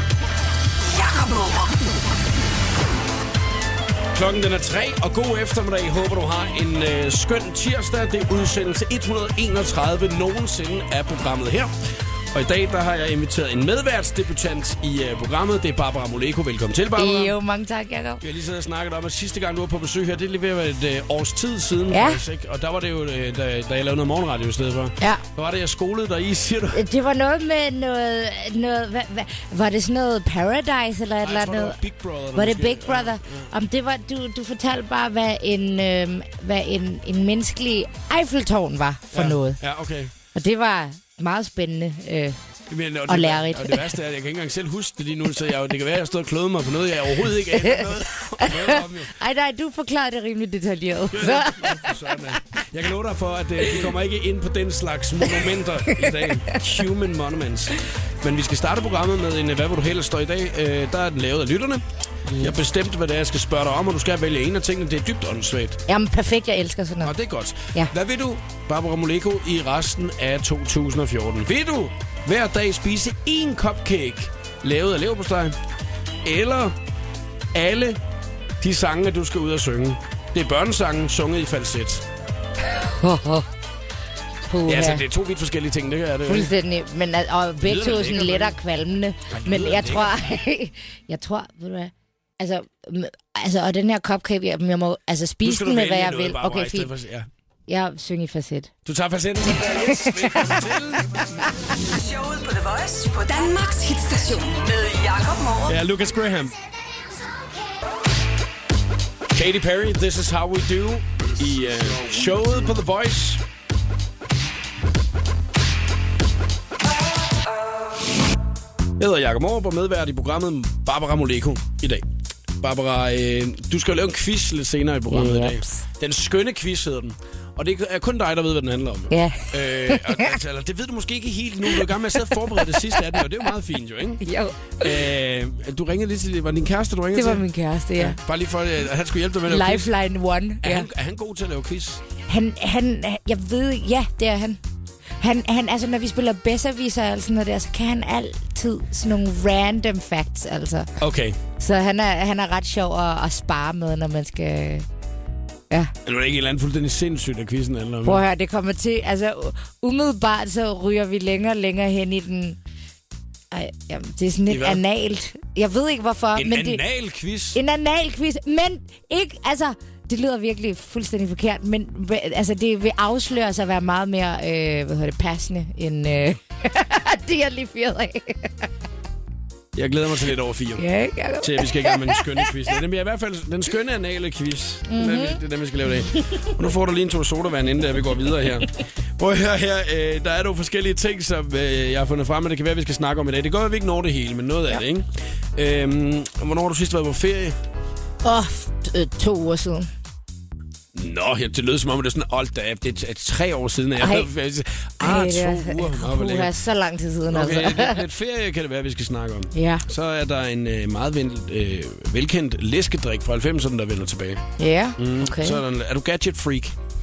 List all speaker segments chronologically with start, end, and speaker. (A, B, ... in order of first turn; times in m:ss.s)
0:00.8-0:01.8 A
0:04.1-0:11.7 B
0:12.3-0:17.4 B
0:17.0-0:18.2 C
0:18.2-0:26.8 B
0:21.9-0:22.2 C
0:26.7-0:31.8 C
0:31.2-0:33.5 B
0:32.3-0:39.6 C
0:39.1-0:40.1 B
0:40.3-0:42.4 C
0:42.7-0:49.1 B
0:43.1-0:43.9 C
0:47.5-0:51.9 C
0:51.1-1:01.8 B
0:55.9-0:56.6 C
1:02.4-1:05.8 B
1:05.9-1:07.1 C
1:07.0-1:15.6 B
1:16.2-1:16.8 B
1:17.5-1:18.0 B
1:18.6-1:22.0 B
1:22.8-1:23.5 C
1:24.5-1:25.0 C
1:24.6-1:26.5 B
1:26.3-1:36.9 C
1:27.6-1:28.6 B
1:29.3-1:30.3 B
1:35.4-1:37.3 B
1:37.7-1:38.7 C
1:38.8-1:41.5 B
1:39.8-1:40.6 C
1:41.9-1:45.7 A
1:45.6-1:46.6 B
1:49.3-1:53.4 B
1:59.0-2:02.0 B
2:02.6-2:14.2 B
2:05.1-2:05.8 C
2:09.1-2:10.3 C
2:12.5-2:13.2 C
2:14.2-2:15.1 C
2:14.8-2:17.4 B
2:17.1-2:18.2 C
2:18.0-2:19.9 B
2:19.4-2:20.9 C
2:20.6-2:22.0 B
2:22.3-2:24.6 C
2:25.2-2:30.9 C
2:31.0-2:31.4 B
2:31.6-2:34.8 C
2:36.0-2:38.2 B
2:38.0-2:42.6 C
2:43.5-2:46.8 C
2:44.5-2:44.8 B
2:46.4-2:47.6 B
2:47.5-2:58.7 C
2:59.7-3:00.8 B
3:00.8-3:02.5 C
3:01.4-3:17.6 B
3:04.9-3:05.4 C
3:18.2-3:19.9 C
3:20.9-3:26.5 B
3:24.0-3:24.3 C
3:25.0-3:28.0 C
3:27.3-3:34.4 B
3:29.5-3:29.8 C
3:34.6-3:35.6 C
3:35.0-3:36.8 B